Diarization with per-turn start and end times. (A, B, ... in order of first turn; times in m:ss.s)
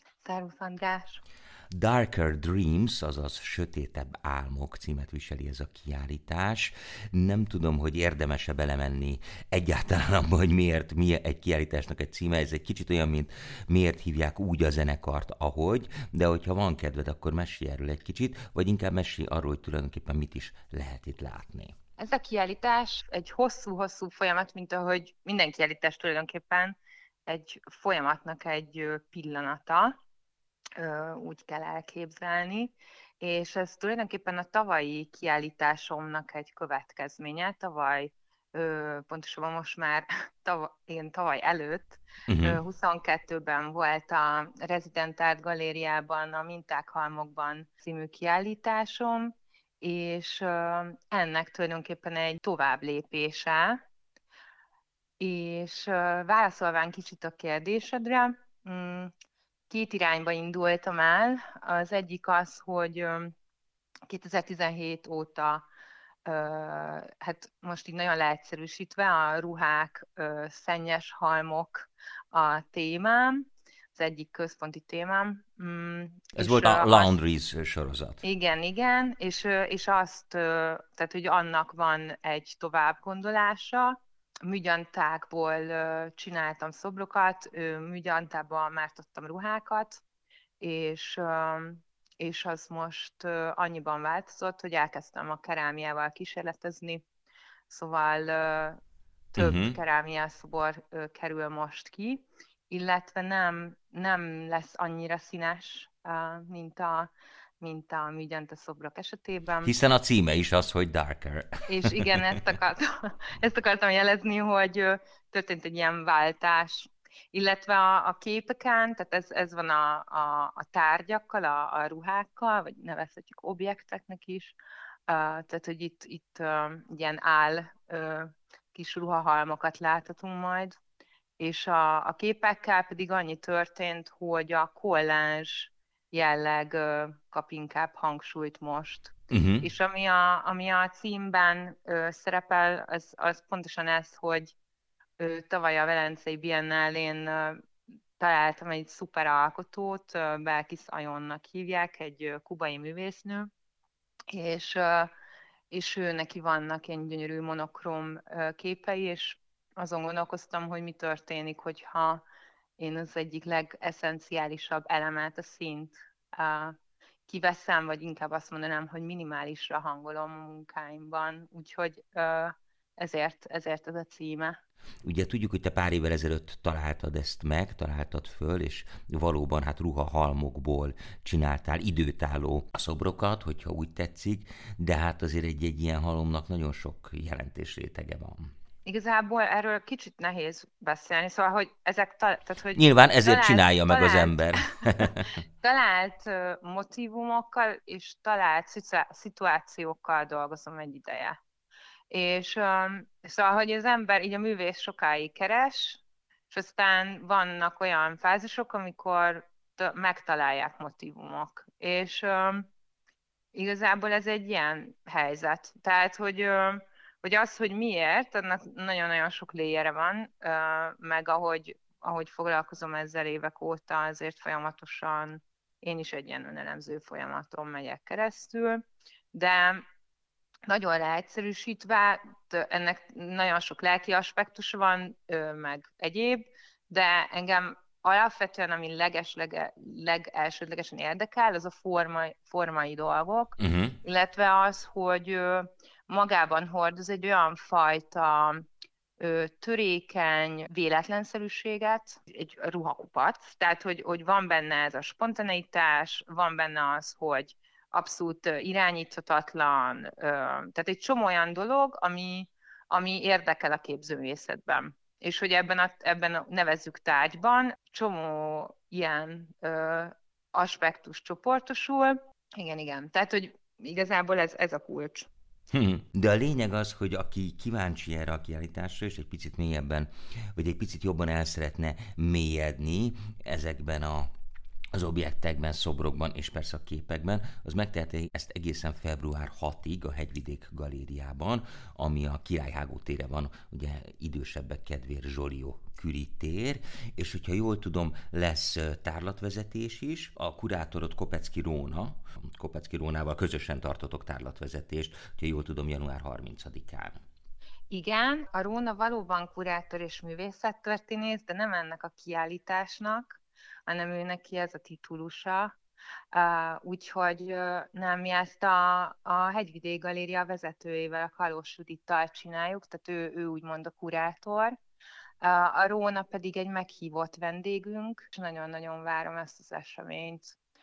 0:00.2-0:01.2 A
0:01.7-0:21.8 B
0:22.0-0:26.8 A
0:27.3-0:29.9 A
0:30.8-0:53.8 A
0:42.3-0:42.6 B
0:55.2-0:59.1 A
0:59.7-1:03.4 A
1:04.1-1:05.7 A
1:06.3-1:17.2 A
1:16.4-1:18.2 B
1:18.2-1:30.0 A
1:30.6-1:37.0 A
1:37.7-1:38.8 A
1:39.3-1:49.8 A
1:39.4-1:39.8 B
1:49.6-1:52.2 B
1:51.7-2:04.6 A
2:05.1-2:10.8 A
2:11.4-2:24.6 A
2:19.3-2:19.7 B
2:25.2-2:27.6 A
2:28.2-2:33.5 A
2:34.3-2:35.1 A
2:35.7-2:42.2 A
2:42.8-2:46.7 A
2:47.3-2:54.6 A
2:55.0-3:08.5 B
3:08.8-3:21.4 A
3:12.7-3:15.3 B
3:22.1-3:32.7 A
3:33.5-3:48.8 A
3:49.3-3:49.8 A
3:50.7-4:08.7 A
4:03.6-4:04.0 B
4:09.2-4:35.3 A
4:35.7-4:44.3 B
4:44.9-5:07.2 B
5:07.9-5:15.8 A
5:16.3-5:24.8 A
5:25.4-5:30.6 A